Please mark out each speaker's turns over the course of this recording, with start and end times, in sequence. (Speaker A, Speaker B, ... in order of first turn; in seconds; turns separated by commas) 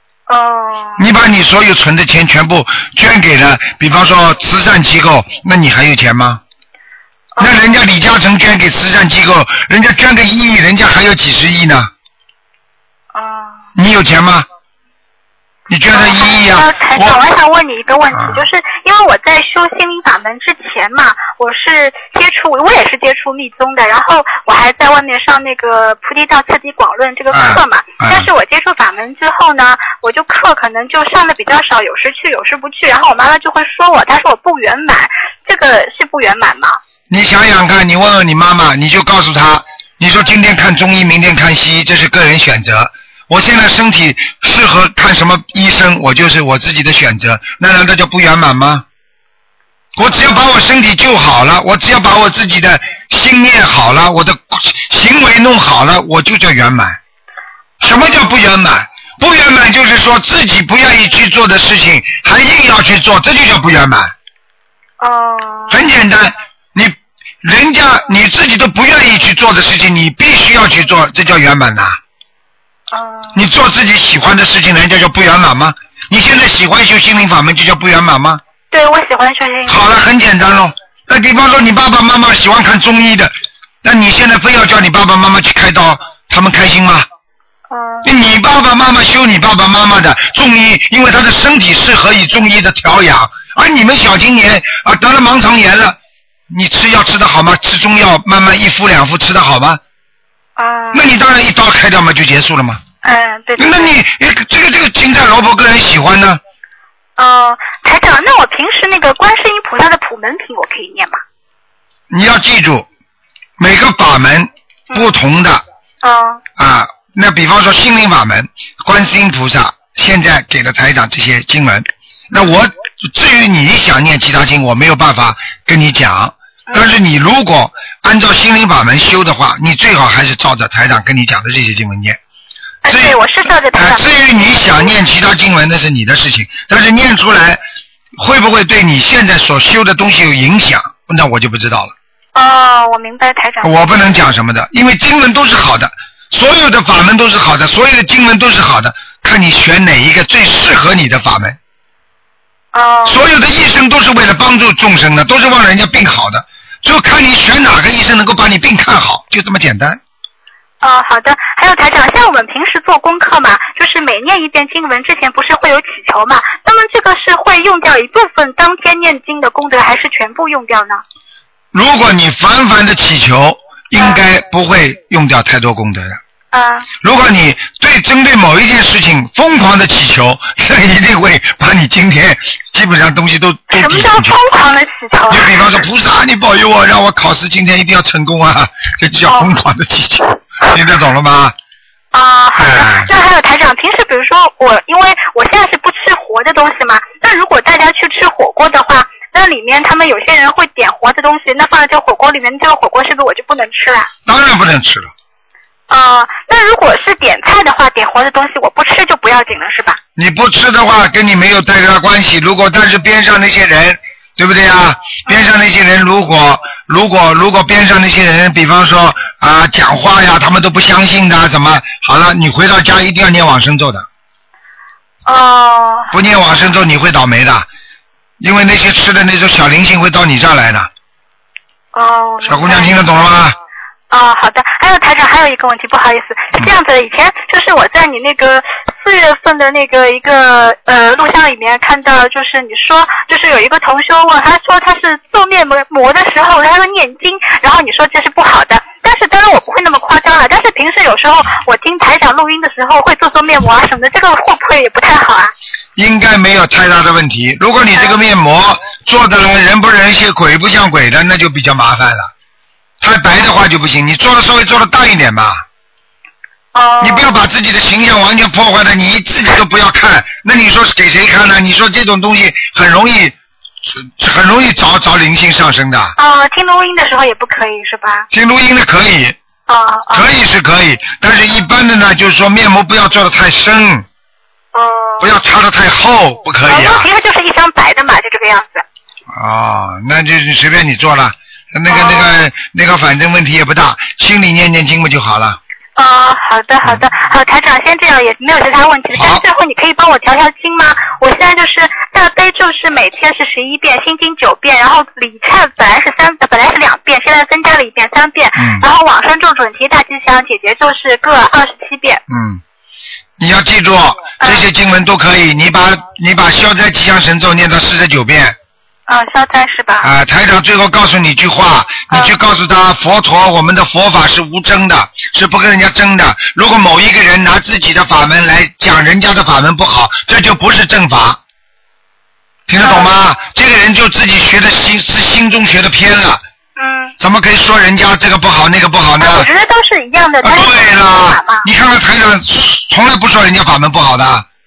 Speaker A: 0.3-1.0, Speaker B: 1.0-6.4, Speaker A: 7.4-7.7, Speaker B: 7.4-11.9, Speaker A: 13.1-13.6, Speaker B: 13.8-14.4, Speaker B: 15.7-17.2, Speaker A: 15.9-36.8, Speaker B: 18.1-18.4, Speaker B: 27.3-28.3, Speaker B: 37.1-48.8, Speaker B: 50.0-57.0, Speaker A: 50.1-50.4, Speaker B: 57.8-64.1, Speaker A: 57.8-58.3, Speaker A: 65.0-65.8, Speaker B: 65.7-72.0, Speaker A: 72.9-73.4, Speaker B: 73.3-78.4, Speaker A: 78.7-79.8, Speaker B: 79.7-83.3, Speaker B: 83.8-87.1, Speaker A: 87.7-88.1, Speaker B: 88.0-96.0, Speaker B: 96.5-99.8, Speaker A: 100.6-101.1, Speaker B: 100.9-102.8, Speaker A: 103.0-103.9, Speaker B: 103.6-106.4, Speaker A: 107.2-111.2, Speaker B: 112.1-112.9, Speaker B: 113.6-115.6, Speaker A: 116.0-116.4, Speaker B: 116.6-132.2, Speaker A: 132.8-134.9, Speaker B: 132.9-133.2, Speaker B: 133.7-137.6, Speaker B: 138.2-141.9, Speaker A: 142.3-143.7, Speaker B: 143.6-151.6, Speaker A: 152.7-153.2, Speaker B: 153.1-160.0, Speaker A: 160.8-171.0, Speaker B: 171.7-176.2, Speaker A: 176.5-176.9, Speaker B: 177.0-184.4, Speaker A: 183.7-185.7, Speaker B: 185.3-191.5, Speaker A: 189.2-189.5, Speaker A: 192.1-204.1, Speaker B: 192.6-193.1, Speaker B: 204.2-205.1, Speaker A: 205.9-210.0, Speaker B: 210.2-224.1, Speaker A: 215.3-215.5, Speaker A: 225.2-226.1, Speaker B: 226.1-227.7, Speaker B: 228.4-230.9, Speaker A: 231.9-233.0, Speaker B: 232.4-233.6, Speaker A: 234.1-255.5, Speaker B: 255.9-262.3, Speaker B: 263.0-265.6, Speaker A: 266.7-267.4, Speaker B: 267.0-273.3, Speaker B: 273.9-276.1, Speaker A: 276.2-278.3, Speaker B: 278.3-279.4, Speaker A: 279.7-280.3, Speaker B: 280.1-284.1, Speaker A: 284.7-285.3, Speaker B: 285.2-287.1, Speaker A: 286.7-288.8, Speaker B: 289.3-295.6, Speaker A: 291.9-292.4, Speaker A: 295.9-312.2, Speaker B: 299.1-299.4, Speaker B: 308.6-308.8, Speaker B: 312.3-312.6, Speaker B: 313.4-318.6, Speaker A: 314.4-314.6, Speaker A: 319.1-320.1, Speaker B: 320.0-331.4, Speaker B: 332.7-336.4, Speaker A: 332.8-333.1, Speaker A: 336.8-337.1, Speaker B: 337.2-339.5, Speaker A: 339.2-341.6, Speaker B: 340.4-344.4